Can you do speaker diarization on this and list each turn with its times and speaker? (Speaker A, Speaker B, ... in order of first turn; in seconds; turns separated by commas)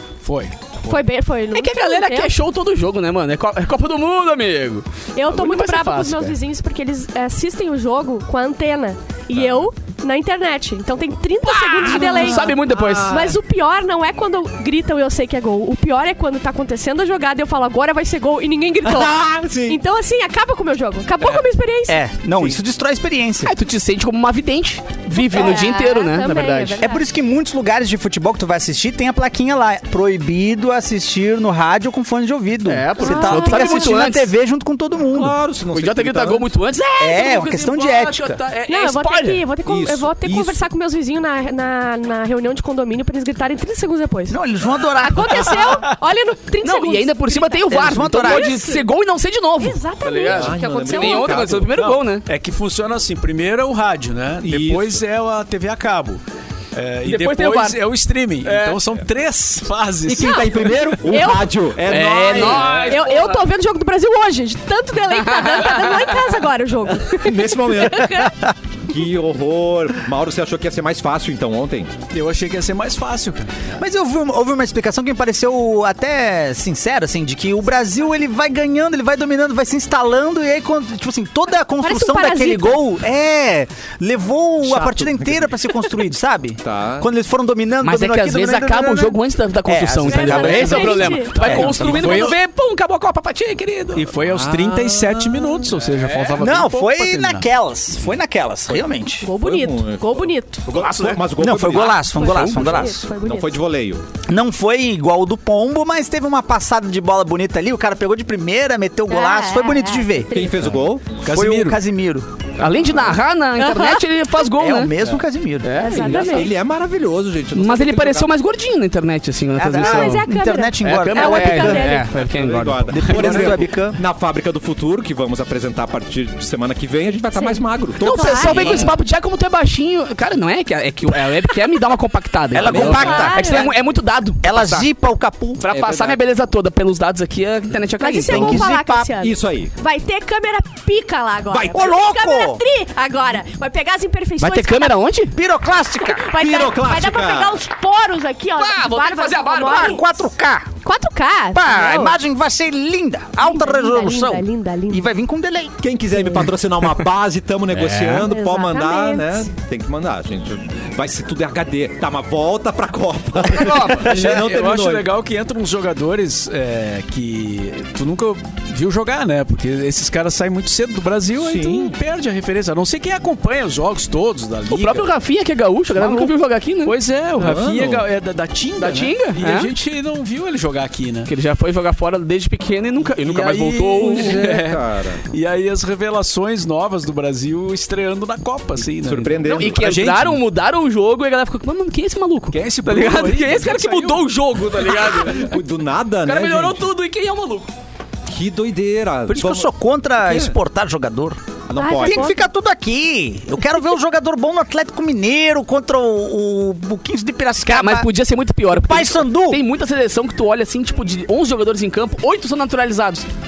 Speaker A: 0.2-1.0, Speaker B: 0.8-2.3, Speaker C: 1.5-6.3, Speaker B: 5.1-22.0, Speaker D: 9.3-9.7, Speaker C: 11.5-13.3, Speaker D: 11.7-13.3, Speaker D: 18.8-19.8, Speaker E: 21.9-23.5, Speaker C: 23.4-26.8, Speaker B: 25.1-27.0, Speaker E: 26.8-35.3, Speaker C: 32.6-34.3, Speaker B: 33.0-33.7, Speaker D: 35.1-36.5, Speaker C: 35.7-39.4, Speaker E: 37.0-38.2, Speaker B: 38.7-44.4, Speaker D: 39.6-40.6, Speaker E: 44.3-45.7, Speaker B: 45.0-48.9, Speaker A: 45.5-45.9, Speaker C: 46.6-52.2, Speaker E: 47.7-48.5, Speaker B: 49.6-51.4, Speaker D: 50.3-51.8, Speaker A: 51.7-56.2, Speaker D: 54.4-55.0, Speaker A: 56.7-60.4, Speaker C: 57.0-57.8, Speaker C: 58.4-58.8, Speaker D: 60.0-62.9, Speaker B: 60.2-61.6, Speaker C: 61.9-63.4, Speaker B: 62.4-68.3, Speaker C: 65.2-66.1, Speaker D: 67.1-71.9, Speaker E: 68.1-68.5, Speaker A: 72.1-73.5, Speaker E: 73.8-92.2, Speaker B: 81.8-82.8, Speaker D: 84.6-85.5, Speaker D: 86.6-87.1, Speaker C: 87.8-94.1, Speaker B: 90.0-91.4, Speaker A: 90.8-92.4, Speaker D: 91.4-91.8, Speaker A: 93.9-97.4, Speaker D: 94.3-95.6, Speaker C: 96.0-96.4, Speaker E: 96.3-99.3, Speaker B: 99.2-100.7, Speaker D: 99.3-104.0, Speaker C: 100.7-102.6, Speaker E: 101.3-103.0, Speaker B: 102.0-103.6, Speaker E: 104.2-110.4, Speaker B: 109.1-110.5, Speaker D: 110.3-111.2, Speaker A: 111.2-111.8, Speaker E: 111.3-112.3, Speaker C: 112.6-115.0, Speaker B: 113.6-114.0, Speaker E: 114.4-115.9, Speaker C: 115.6-116.5, Speaker B: 115.7-116.5, Speaker D: 115.9-118.3, Speaker C: 117.5-120.3, Speaker E: 119.5-122.0, Speaker B: 119.7-122.1, Speaker C: 120.8-123.6, Speaker D: 122.1-128.9, Speaker E: 122.9-124.0, Speaker B: 127.3-128.8, Speaker C: 128.0-134.9, Speaker E: 128.4-128.9, Speaker E: 132.5-133.7, Speaker D: 132.6-133.3, Speaker B: 132.7-133.7, Speaker E: 134.4-135.6, Speaker C: 135.6-138.6, Speaker D: 135.7-136.2, Speaker B: 138.0-145.0, Speaker E: 138.2-139.1, Speaker D: 139.2-139.7, Speaker E: 141.5-142.6, Speaker C: 144.4-145.3, Speaker E: 145.3-146.3, Speaker B: 146.0-150.1, Speaker D: 146.3-147.6, Speaker C: 148.6-150.0, Speaker E: 149.7-150.7, Speaker B: 150.8-152.2, Speaker E: 151.5-155.8, Speaker B: 153.4-155.1, Speaker D: 155.8-165.1, Speaker C: 157.7-158.3, Speaker B: 158.1-159.5, Speaker C: 163.5-164.1, Speaker A: 163.9-175.1, Speaker D: 171.4-171.9, Speaker C: 174.7-176.9, Speaker A: 175.9-181.3, Speaker D: 177.4-178.1, Speaker C: 178.8-179.7, Speaker C: 181.2-184.5, Speaker A: 183.1-190.4, Speaker D: 184.0-185.2, Speaker D: 189.0-190.2, Speaker C: 189.5-195.6, Speaker A: 192.5-194.2, Speaker D: 195.2-196.9, Speaker C: 196.2-197.7, Speaker D: 198.3-200.5, Speaker E: 199.3-201.4, Speaker D: 201.7-202.4, Speaker B: 201.8-202.4, Speaker E: 201.9-208.1, Speaker C: 207.7-213.2, Speaker E: 208.7-209.6